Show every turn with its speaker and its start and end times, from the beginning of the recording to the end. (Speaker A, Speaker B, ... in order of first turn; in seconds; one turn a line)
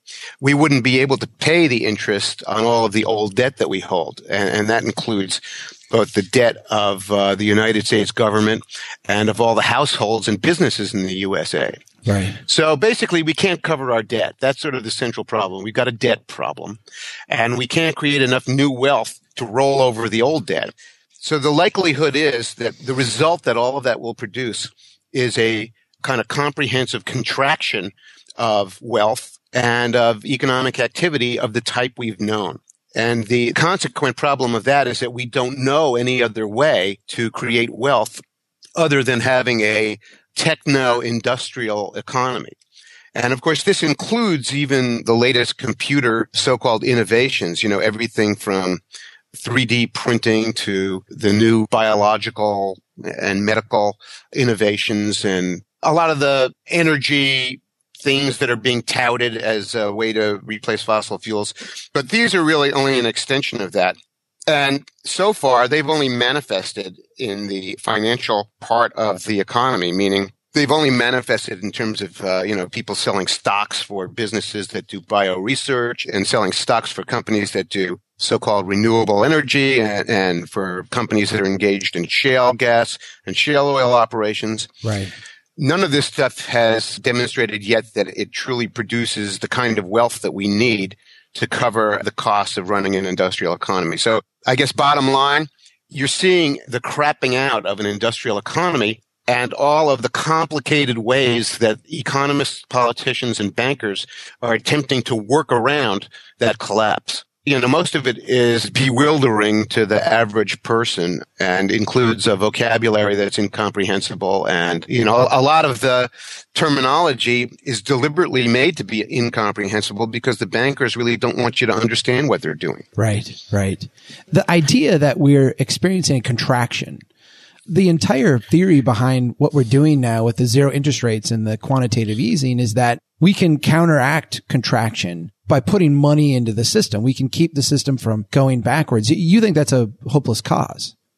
Speaker A: 0.4-11.8
Speaker B: 12.1-12.4
Speaker A: 12.4-38.2
Speaker A: 38.8-42.6
Speaker A: 43.1-48.8
Speaker A: 49.4-64.0
Speaker A: 64.5-84.7
Speaker B: 84.8-85.1
Speaker A: 85.6-122.9
Speaker B: 123.0-127.0
Speaker B: 127.7-140.9